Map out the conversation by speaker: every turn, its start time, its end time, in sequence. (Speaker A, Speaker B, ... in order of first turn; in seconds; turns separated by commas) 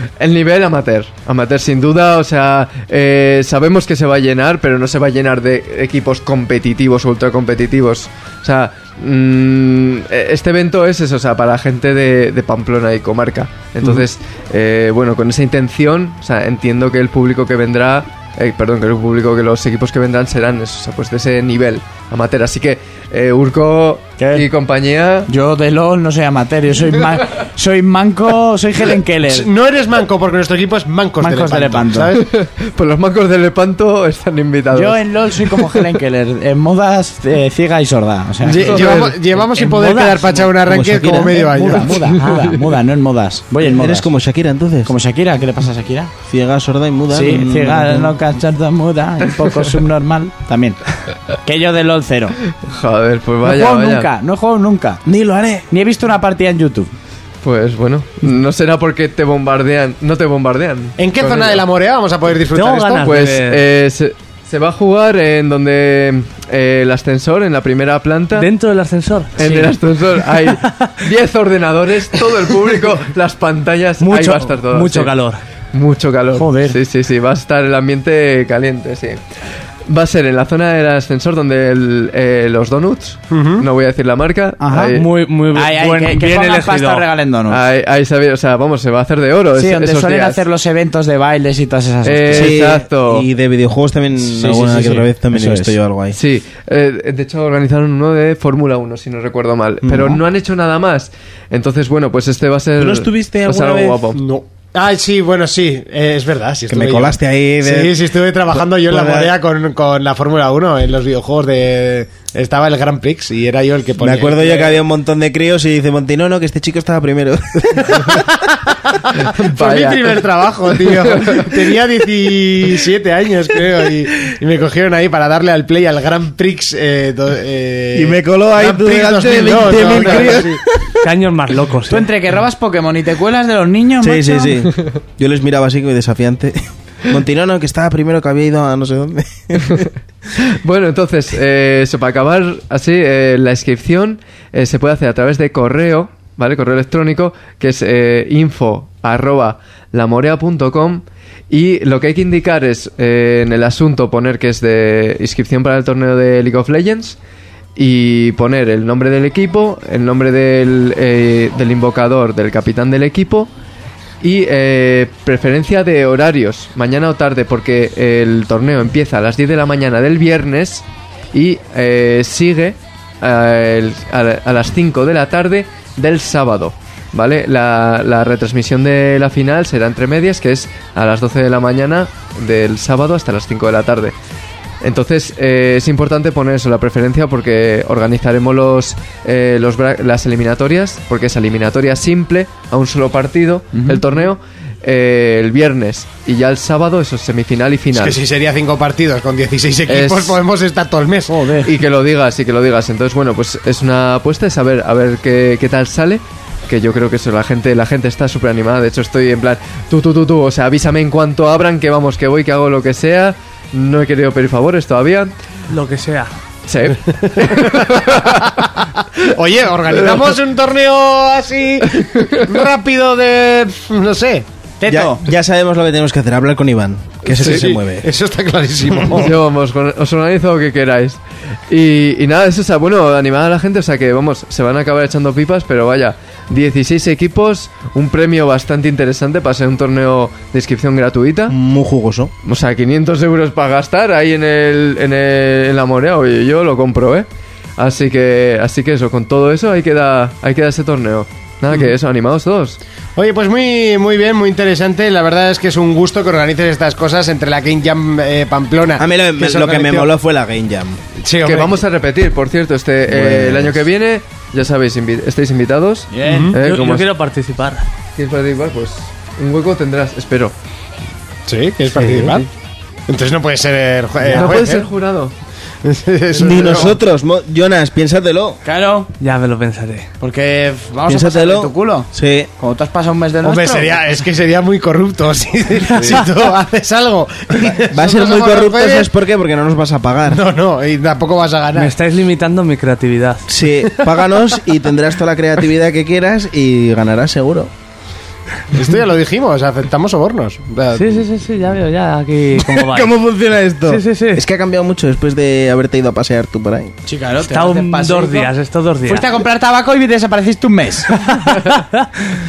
Speaker A: 0.2-25.3, Speaker B: 24.2-24.5, Speaker B: 25.3-29.5, Speaker C: 29.3-32.2, Speaker B: 31.2-32.2, Speaker A: 32.1-35.8, Speaker B: 34.7-38.9, Speaker C: 38.4-42.0, Speaker A: 38.5-39.2, Speaker D: 39.5-40.6, Speaker B: 40.7-44.1, Speaker D: 42.2-42.5, Speaker E: 43.6-44.9, Speaker B: 44.9-46.1, Speaker E: 46.3-48.1, Speaker B: 47.1-50.8, Speaker B: 51.4-52.4, Speaker A: 52.6-54.1, Speaker B: 53.4-55.0, Speaker E: 55.0-55.7, Speaker B: 55.7-56.9, Speaker A: 57.4-61.6, Speaker C: 61.0-63.1, Speaker D: 62.5-63.6, Speaker A: 62.9-68.5, Speaker D: 68.3-69.7, Speaker A: 69.4-75.1, Speaker D: 70.4-70.9, Speaker D: 74.0-75.4, Speaker A: 75.7-79.2, Speaker B: 76.3-76.8, Speaker A: 79.9-85.1, Speaker C: 83.3-83.7, Speaker B: 84.6-85.0, Speaker D: 84.9-87.0, Speaker B: 85.5-87.6, Speaker A: 87.5-90.4, Speaker B: 89.5-92.6, Speaker A: 92.0-93.3, Speaker E: 92.3-96.2, Speaker B: 94.2-95.8, Speaker A: 96.1-104.2, Speaker E: 99.8-100.2, Speaker E: 102.8-104.0, Speaker C: 104.1-114.8, Speaker E: 106.7-109.3, Speaker E: 114.0-118.2, Speaker C: 118.8-130.6, Speaker A: 119.3-121.8, Speaker E: 127.9-130.9, Speaker D: 129.8-130.4, Speaker D: 131.0-132.1, Speaker B: 131.9-134.6, Speaker E: 134.0-139.9, Speaker A: 140.6-157.2, Speaker A: 157.8-163.5, Speaker A: 164.2-184.1, Speaker A: 184.8-198.2, Speaker B: 193.7-194.2, Speaker C: 197.9-201.4, Speaker A: 199.9-200.4, Speaker B: 201.3-201.7, Speaker A: 201.6-215.3, Speaker D: 215.7-216.3, Speaker A: 216.7-218.6, Speaker C: 217.2-218.7, Speaker C: 219.2-224.4, Speaker A: 222.0-222.5, Speaker B: 224.8-225.2, Speaker E: 224.9-228.1, Speaker A: 227.2-227.7, Speaker C: 227.4-229.3, Speaker A: 229.1-241.5, Speaker E: 241.5-242.3, Speaker A: 242.4-252.8, Speaker C: 253.2-260.1, Speaker E: 259.0-261.0, Speaker C: 261.2-261.8, Speaker A: 261.4-267.1, Speaker E: 263.1-263.8, Speaker B: 266.1-266.6, Speaker C: 266.2-266.6, Speaker D: 266.6-267.9, Speaker A: 268.1-270.5, Speaker C: 271.5-272.5, Speaker D: 271.9-272.4, Speaker C: 273.1-274.9, Speaker A: 274.4-275.3, Speaker C: 275.8-277.0, Speaker E: 276.3-278.6, Speaker B: 278.6-279.1, Speaker D: 279.2-280.1, Speaker B: 280.2-284.0, Speaker E: 281.1-282.5, Speaker C: 283.4-289.1, Speaker E: 287.9-290.4, Speaker C: 290.3-291.9, Speaker D: 291.8-293.5, Speaker E: 293.5-297.7, Speaker C: 298.7-301.3, Speaker D: 300.9-303.1, Speaker E: 302.6-306.9, Speaker D: 303.9-304.4, Speaker B: 307.1-308.5, Speaker D: 307.4-309.3, Speaker B: 309.1-311.1, Speaker D: 311.3-312.0